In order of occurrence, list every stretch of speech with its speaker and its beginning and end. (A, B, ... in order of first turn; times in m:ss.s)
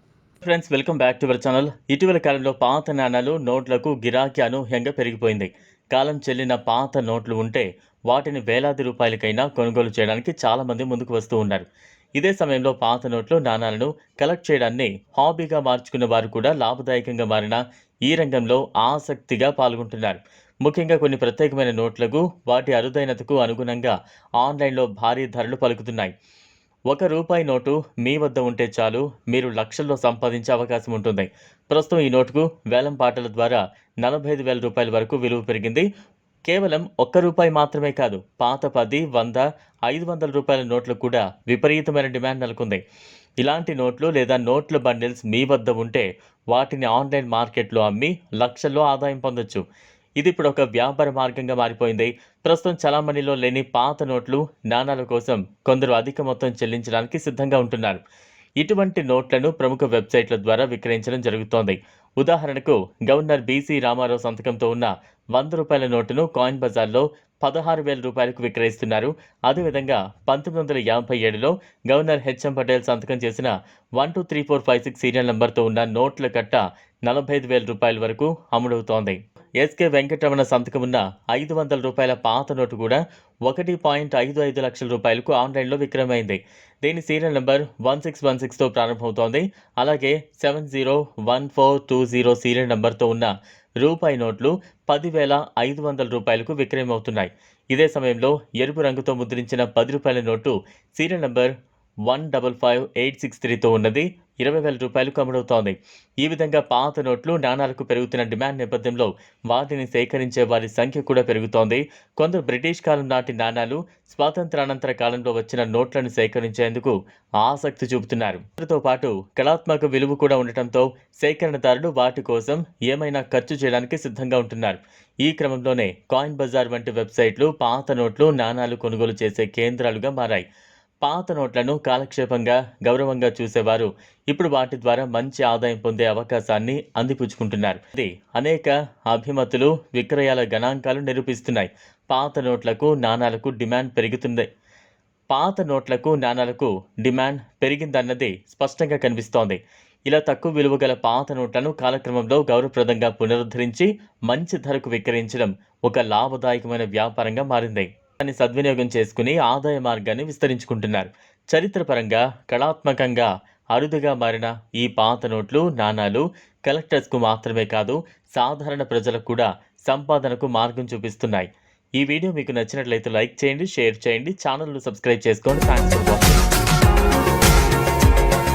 0:00.4-0:11.7 A
0:12.2-0:26.1 A
0:26.9-0:35.9 A
0:36.5-0:42.8 A
0:43.4-0:49.6 A
0:50.2-0:58.0 A
0:58.6-1:41.5 A
1:42.1-2:10.4 A
2:11.0-2:24.5 A
2:25.3-2:56.4 A